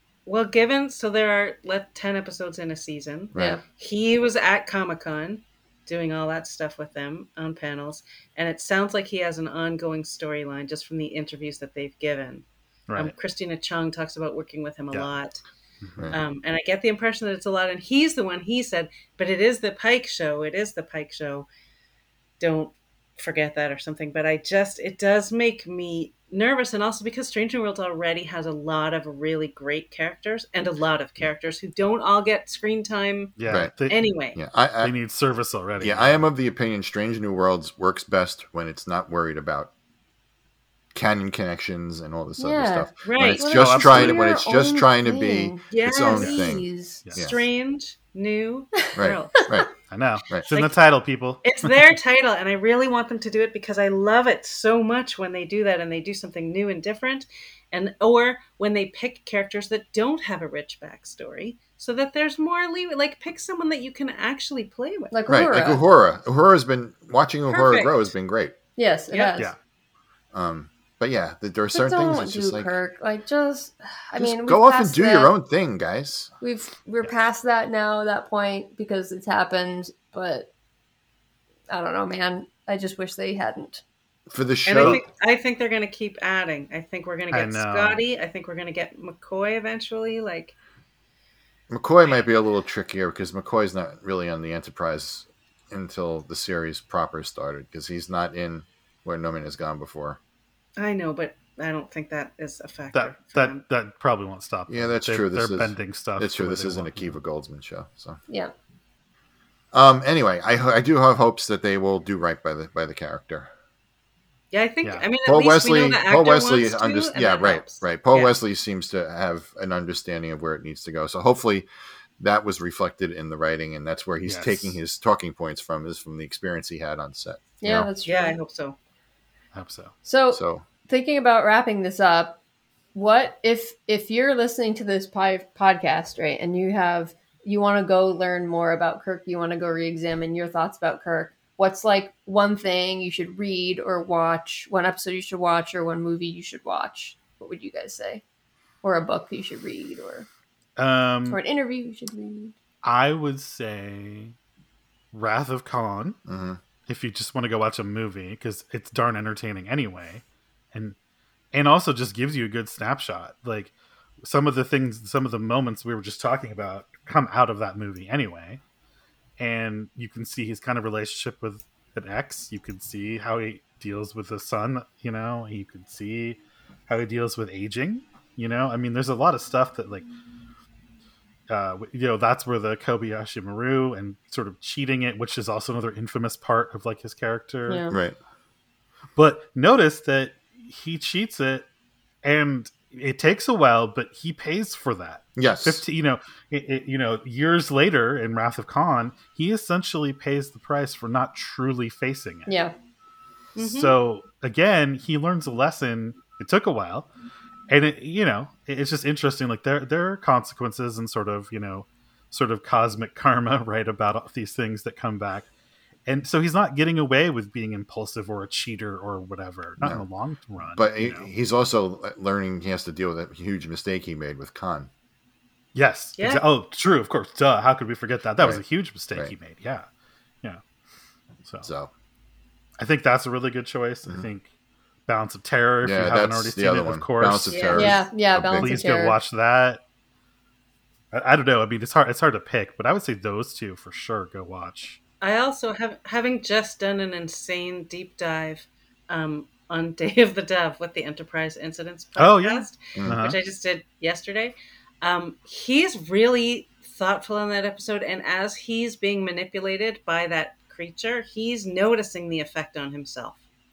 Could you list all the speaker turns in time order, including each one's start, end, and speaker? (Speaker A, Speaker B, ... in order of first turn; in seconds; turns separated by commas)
Speaker A: 0.2-12.4, Speaker B: 3.3-3.6, Speaker C: 3.3-3.6, Speaker D: 12.9-13.1, Speaker A: 12.9-15.4, Speaker D: 15.8-16.1, Speaker A: 16.1-21.5, Speaker A: 22.4-34.4, Speaker D: 33.4-34.0, Speaker B: 34.3-34.9, Speaker D: 34.8-36.2, Speaker B: 35.8-39.7, Speaker B: 40.9-47.4, Speaker C: 42.4-47.0, Speaker A: 43.0-43.5, Speaker D: 43.5-44.2, Speaker A: 45.7-46.3, Speaker D: 47.0-47.4, Speaker A: 47.1-49.5, Speaker B: 49.0-49.7, Speaker D: 49.9-52.0, Speaker A: 50.5-50.8, Speaker A: 51.4-65.1, Speaker C: 65.1-65.8, Speaker B: 65.3-68.5, Speaker A: 67.5-68.1, Speaker C: 68.8-69.5, Speaker A: 69.1-69.4, Speaker B: 70.3-72.8, Speaker C: 71.7-75.3, Speaker B: 74.2-76.3, Speaker C: 76.4-80.5, Speaker C: 81.7-83.8, Speaker B: 84.3-85.0, Speaker A: 84.7-90.5, Speaker D: 87.3-88.0, Speaker B: 91.7-100.2, Speaker A: 100.8-103.6, Speaker D: 102.9-107.2, Speaker B: 104.7-108.2, Speaker B: 109.7-113.5, Speaker A: 114.5-118.3, Speaker B: 115.2-121.7, Speaker B: 122.2-127.9, Speaker D: 124.2-124.8, Speaker C: 127.6-128.4, Speaker A: 128.1-128.8, Speaker D: 129.5-129.9, Speaker C: 130.0-132.4, Speaker B: 130.3-130.6, Speaker C: 132.9-148.2, Speaker C: 148.8-150.3, Speaker D: 150.8-151.4, Speaker C: 151.3-152.5, Speaker D: 152.8-154.3, Speaker D: 155.1-156.2, Speaker B: 156.3-156.6, Speaker D: 156.9-160.9, Speaker D: 161.5-168.6, Speaker D: 169.4-180.1, Speaker D: 181.5-187.9, Speaker C: 187.7-187.9, Speaker B: 187.9-188.2, Speaker D: 189.1-191.7, Speaker D: 192.2-202.5, Speaker B: 195.3-195.8, Speaker C: 202.5-202.7, Speaker A: 203.6-203.9, Speaker D: 203.6-207.1, Speaker D: 207.7-215.5, Speaker D: 216.1-221.3, Speaker B: 219.8-220.0, Speaker B: 220.8-224.9, Speaker D: 225.7-229.9, Speaker A: 226.2-226.4, Speaker B: 228.4-229.3, Speaker B: 231.6-231.9, Speaker D: 232.8-234.5, Speaker D: 235.1-238.0, Speaker B: 235.8-238.9, Speaker A: 237.5-237.9, Speaker C: 237.7-239.2, Speaker D: 238.6-239.8, Speaker D: 241.1-245.0, Speaker A: 245.2-263.4, Speaker D: 252.2-253.4